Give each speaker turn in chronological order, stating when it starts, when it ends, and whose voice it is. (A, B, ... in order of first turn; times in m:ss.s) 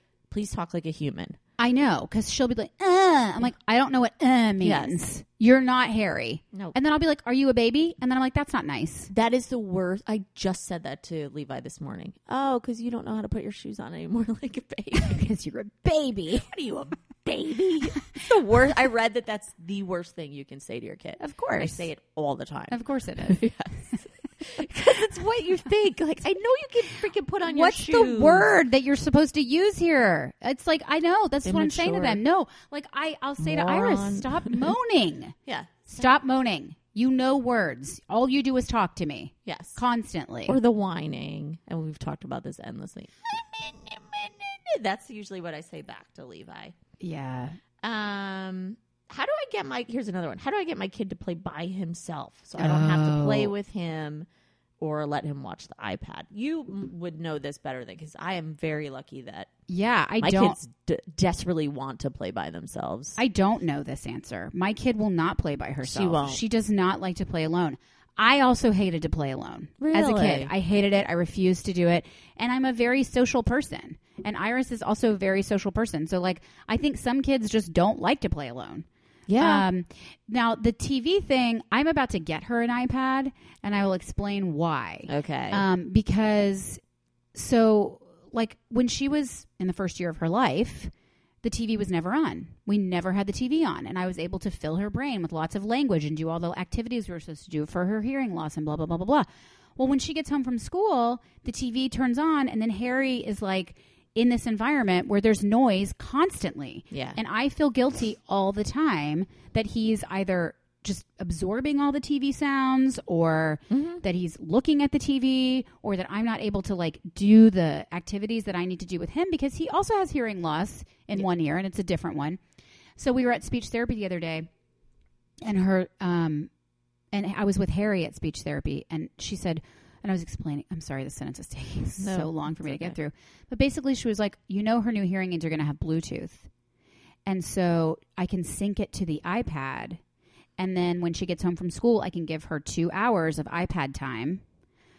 0:00.3-0:01.4 A
0:01.6-0:09.1 B
0:04.6-0:05.0 A
0:09.1-0:15.3 A
0:15.0-0:16.5 B
0:16.3-0:28.5 A
0:21.2-0:21.9 B
0:22.7-0:23.4 B
0:27.5-0:35.4 B
0:31.4-0:32.2 A
0:33.4-0:34.7 A
0:35.5-0:35.9 A
0:35.9-0:40.6 B
0:39.5-0:39.8 A
0:40.5-0:46.8 A
0:47.0-0:47.6 B
0:47.8-0:54.3 A
0:52.6-0:53.5 B
0:54.8-0:59.5 A
0:59.7-1:00.6 B
1:00.2-1:03.2 A
1:03.2-1:18.9 B
1:05.8-1:06.4 A
1:09.8-1:10.5 A
1:19.3-1:19.7 A
1:19.4-1:26.8 B
1:25.1-1:25.6 A
1:27.3-1:30.9 B
1:31.4-2:02.4 B
1:46.9-1:47.2 A
1:53.7-1:54.0 A
2:03.0-2:04.5 B
2:05.4-2:06.5 B
2:07.1-2:16.5 B
2:12.0-2:13.0 A
2:17.3-2:20.0 B
2:20.6-2:24.4 B